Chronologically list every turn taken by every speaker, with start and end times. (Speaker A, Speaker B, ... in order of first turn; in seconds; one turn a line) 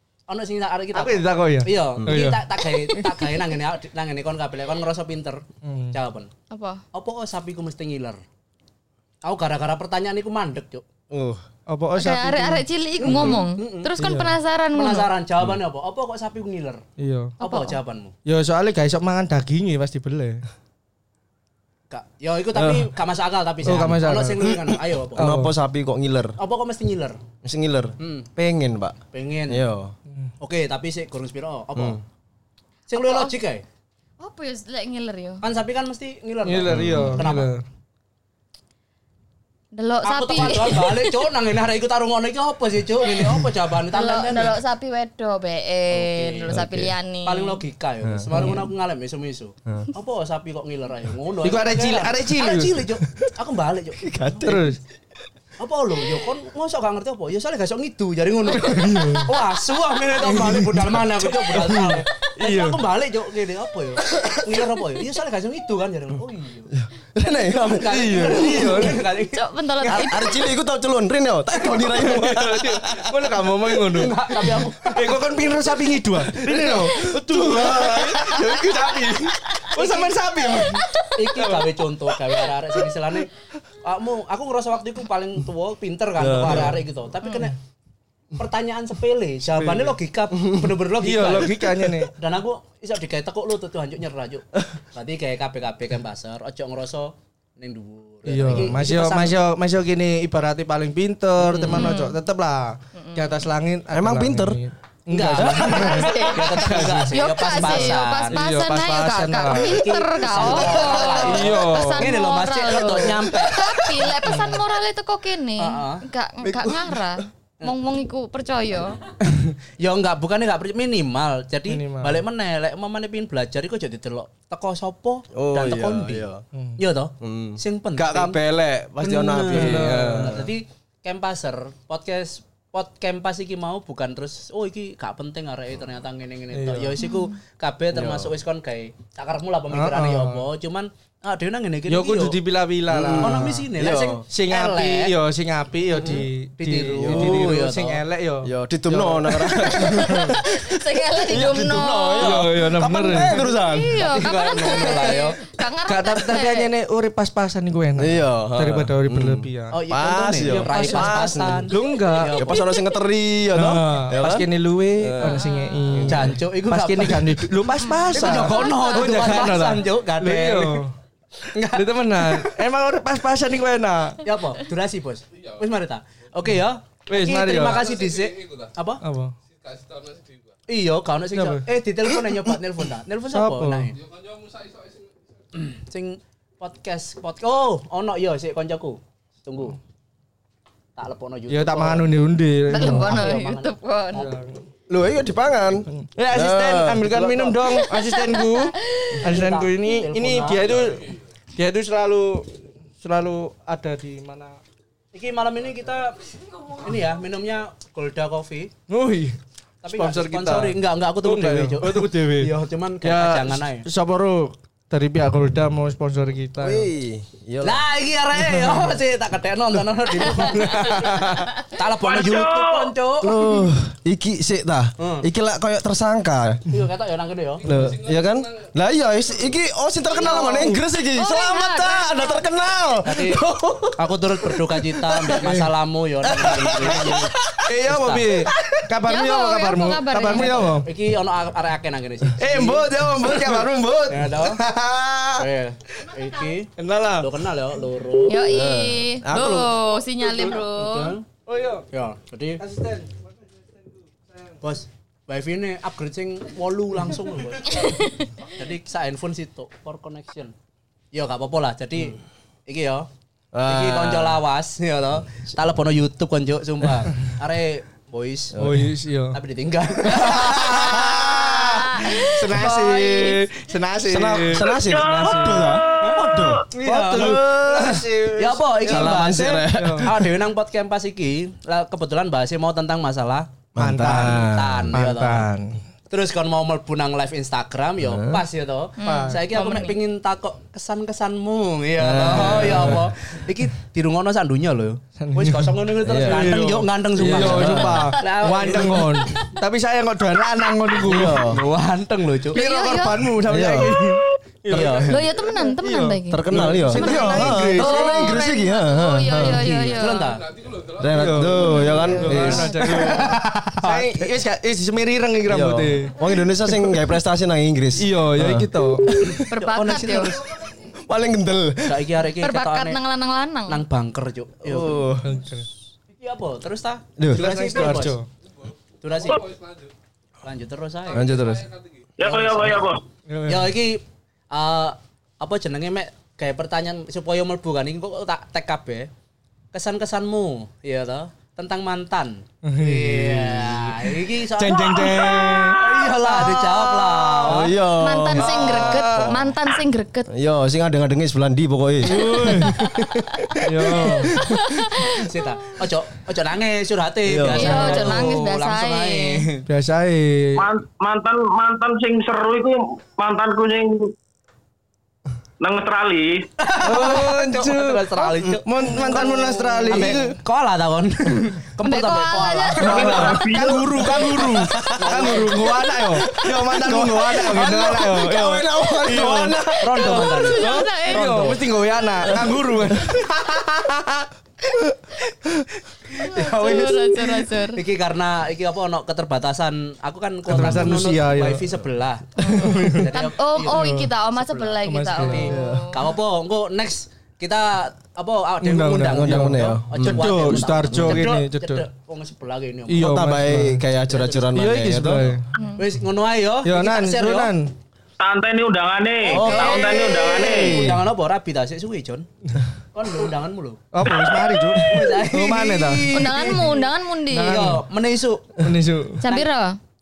Speaker A: 0.3-6.3
Speaker B: 0.9-3.2
Speaker B: 5.6-6.0
Speaker C: 6.5-6.8
Speaker A: 6.9-8.2
Speaker A: 9.2-10.8
Speaker D: 11.1-11.4
Speaker B: 11.7-12.6
Speaker C: 11.9-15.1
Speaker A: 13.0-13.9
Speaker D: 13.0-13.3
Speaker B: 14.0-14.3
Speaker A: 14.7-16.8
Speaker B: 17.0-17.3
Speaker A: 17.4-18.1
Speaker C: 17.4-17.7
Speaker B: 18.2-20.4
Speaker A: 21.9-25.3
Speaker D: 22.5-22.9
Speaker B: 23.6-24.5
Speaker D: 24.4-26.4
Speaker B: 25.2-25.5
Speaker A: 26.4-27.2
Speaker D: 27.4-29.9
Speaker A: 28.0-28.3
Speaker A: 29.1-29.6
Speaker A: 30.4-32.0
Speaker D: 31.8-32.0
Speaker A: 32.9-33.6
Speaker C: 33.0-33.3
Speaker C: 34.2-35.4
Speaker A: 35.4-37.5
Speaker B: 36.4-37.6
Speaker D: 36.7-37.2
Speaker C: 39.7-41.3
Speaker A: 40.0-44.6
Speaker C: 43.9-47.6
Speaker A: 45.9-46.5
Speaker D: 46.5-46.9
Speaker A: 47.2-54.6
Speaker D: 48.0-48.5
Speaker B: 48.3-48.6
Speaker B: 51.4-52.9
Speaker D: 54.0-54.7
Speaker B: 54.4-54.8
Speaker A: 55.6-66.7
Speaker B: 58.5-59.3
Speaker D: 58.8-59.2
Speaker B: 60.3-60.8
Speaker D: 60.3-61.1
Speaker B: 61.5-62.8
Speaker D: 64.0-64.4
Speaker D: 66.7-68.8
Speaker A: 67.6-70.2
Speaker B: 67.8-69.0
Speaker C: 69.2-70.5
Speaker D: 69.9-73.2
Speaker B: 71.7-81.8
Speaker A: 73.9-75.2
Speaker D: 76.4-79.3
Speaker C: 79.7-81.1
Speaker A: 81.1-83.3
Speaker A: 83.8-87.6
Speaker B: 86.2-86.8
Speaker D: 86.3-86.7
Speaker C: 87.2-87.5
Speaker A: 88.3-99.3
Speaker B: 89.5-90.0
Speaker B: 91.0-92.1
Speaker B: 98.2-109.8
Speaker A: 101.4-102.0
Speaker C: 101.7-102.2
Speaker C: 103.0-103.3
Speaker D: 103.9-104.6
Speaker A: 105.1-108.4
Speaker D: 105.3-106.1
Speaker C: 105.9-119.0
Speaker A: 109.5-114.1
Speaker B: 111.2-112.1
Speaker A: 115.6-116.0
Speaker D: 116.4-117.2
Speaker A: 119.4-128.4
Speaker B: 121.7-122.2
Speaker D: 125.3-126.4
Speaker B: 126.5-126.8
Speaker D: 127.2-130.5
Speaker A: 129.0-142.4
Speaker B: 129.5-130.4
Speaker B: 136.5-137.0
Speaker D: 137.9-138.3
Speaker B: 139.7-140.4
Speaker B: 141.9-143.6
Speaker D: 142.9-144.2
Speaker A: 143.1-145.1
Speaker B: 144.3-150.4
Speaker A: 145.9-148.0
Speaker D: 147.0-147.6
Speaker D: 148.4-154.2
Speaker A: 148.9-149.3
Speaker C: 149.5-152.5
Speaker B: 152.2-153.4
Speaker C: 153.1-156.7
Speaker A: 154.0-155.4
Speaker B: 155.8-159.8
Speaker D: 158.0-161.7
Speaker A: 159.7-162.7
Speaker B: 160.4-161.1
Speaker C: 160.7-161.1
Speaker B: 161.7-162.4
Speaker D: 162.4-166.4
Speaker B: 163.5-170.9
Speaker C: 165.2-166.0
Speaker A: 166.0-167.4
Speaker C: 167.9-169.6
Speaker A: 168.1-170.8
Speaker A: 171.4-172.5
Speaker B: 171.7-174.2
Speaker A: 174.2-179.0
Speaker B: 177.1-177.9
Speaker B: 179.0-179.3
Speaker A: 180.7-184.0
Speaker B: 181.3-181.7
Speaker B: 183.3-183.9
Speaker A: 185.5-189.8
Speaker A: 190.9-192.1
Speaker B: 191.5-193.3
Speaker C: 192.7-194.3
Speaker A: 192.8-194.3
Speaker B: 194.1-194.6
Speaker D: 194.9-197.1
Speaker B: 195.9-204.6
Speaker A: 197.1-197.7
Speaker C: 198.0-199.2
Speaker A: 199.2-200.9
Speaker A: 205.1-208.7
Speaker B: 208.9-209.4
Speaker A: 209.8-213.9
Speaker B: 209.9-216.9
Speaker D: 216.6-217.8
Speaker A: 217.6-223.4
Speaker B: 220.4-221.5
Speaker E: 222.0-222.9
Speaker D: 223.2-226.7
Speaker A: 225.0-225.3
Speaker A: 226.7-227.8
Speaker D: 227.6-235.7
Speaker C: 230.1-232.4
Speaker A: 233.0-233.4
Speaker A: 234.0-238.4
Speaker D: 236.2-237.7
Speaker B: 237.7-240.9
Speaker D: 238.5-238.8
Speaker C: 239.0-240.8
Speaker A: 240.6-242.9
Speaker B: 242.4-244.0
Speaker D: 242.4-245.4
Speaker A: 244.1-244.6
Speaker A: 245.4-248.4
Speaker B: 246.8-247.3
Speaker C: 248.3-251.2
Speaker D: 248.4-249.7
Speaker A: 250.4-251.2
Speaker B: 251.4-251.8
Speaker A: 251.9-252.6
Speaker B: 252.6-253.2
Speaker A: 254.6-260.5
Speaker A: 261.1-263.1
Speaker D: 263.5-264.4
Speaker A: 263.6-268.5
Speaker D: 268.5-268.9
Speaker B: 268.5-269.4
Speaker A: 269.3-271.1
Speaker B: 270.1-275.8
Speaker D: 270.5-271.7
Speaker C: 271.1-273.6
Speaker D: 274.1-278.1
Speaker E: 274.8-276.6
Speaker A: 276.0-285.5
Speaker B: 276.8-280.1
Speaker D: 278.8-280.3
Speaker D: 283.7-284.9
Speaker B: 283.8-285.8
Speaker A: 286.1-299.4
Speaker D: 288.0-288.4
Speaker C: 289.0-290.0
Speaker B: 289.0-289.4
Speaker B: 292.0-293.1
Speaker D: 292.0-293.1
Speaker B: 295.2-301.5
Speaker D: 296.0-296.7
Speaker D: 297.2-298.1
Speaker D: 301.0-301.6
Speaker A: 301.2-302.6
Speaker C: 302.5-303.3
Speaker B: 302.5-308.4
Speaker D: 303.5-303.9
Speaker A: 304.7-305.2
Speaker C: 305.0-310.4
Speaker D: 306.3-309.6
Speaker A: 309.4-310.5
Speaker D: 310.9-313.2
Speaker B: 311.1-317.0
Speaker C: 311.5-313.1
Speaker A: 312.3-314.1
Speaker D: 315.5-319.4
Speaker B: 318.0-319.2
Speaker A: 319.2-320.5
Speaker C: 319.5-320.3
Speaker D: 321.1-322.0
Speaker A: 321.9-323.0
Speaker C: 322.4-323.8
Speaker A: 323.7-325.0
Speaker D: 324.6-325.4
Speaker B: 325.2-325.6
Speaker A: 326.1-328.2
Speaker D: 327.2-327.5
Speaker B: 327.3-328.3
Speaker A: 329.0-329.5
Speaker A: 330.4-331.3
Speaker D: 331.1-331.7
Speaker E: 332.2-333.0
Speaker A: 332.2-332.9
Speaker B: 333.3-333.8
Speaker A: 333.4-339.1
Speaker A: 339.7-347.8
Speaker B: 342.6-347.5
Speaker D: 347.4-349.4
Speaker C: 347.9-350.3
Speaker A: 348.4-348.8
Speaker B: 348.5-349.4
Speaker D: 350.3-354.6
Speaker B: 352.0-352.9
Speaker B: 353.6-354.4
Speaker C: 354.4-355.1
Speaker A: 355.1-359.6
Speaker D: 357.2-358.1
Speaker C: 357.5-359.4
Speaker B: 359.6-360.7
Speaker E: 360.6-364.1
Speaker E: 365.6-366.4
Speaker A: 366.6-373.5
Speaker B: 366.8-370.4
Speaker C: 369.0-369.4
Speaker C: 371.8-373.2
Speaker E: 372.8-374.1
Speaker B: 372.8-379.6
Speaker D: 372.8-375.5
Speaker A: 374.9-375.5
Speaker D: 376.1-380.4
Speaker A: 379.8-381.6
Speaker C: 380.0-381.5
Speaker B: 380.5-387.4
Speaker D: 382.3-383.1
Speaker C: 386.2-387.8
Speaker A: 386.2-387.1
Speaker A: 387.7-403.2
Speaker B: 390.5-391.8
Speaker C: 392.4-396.1
Speaker B: 392.5-393.1
Speaker B: 393.7-394.1
Speaker B: 394.8-395.6
Speaker D: 395.5-395.9
Speaker B: 398.6-401.9
Speaker D: 399.1-400.5
Speaker B: 402.9-403.8
Speaker D: 403.0-405.3
Speaker A: 404.0-404.6
Speaker B: 404.5-405.5
Speaker C: 405.6-405.8
Speaker A: 405.7-407.5
Speaker B: 406.6-407.7
Speaker E: 408.2-410.9
Speaker A: 409.3-412.3
Speaker D: 409.3-411.0
Speaker C: 409.5-409.8
Speaker A: 412.9-413.8
Speaker B: 413.9-416.5
Speaker A: 414.8-416.8
Speaker C: 416.1-417.7
Speaker B: 417.3-417.8
Speaker A: 417.4-418.5
Speaker B: 418.6-419.2
Speaker C: 419.2-419.8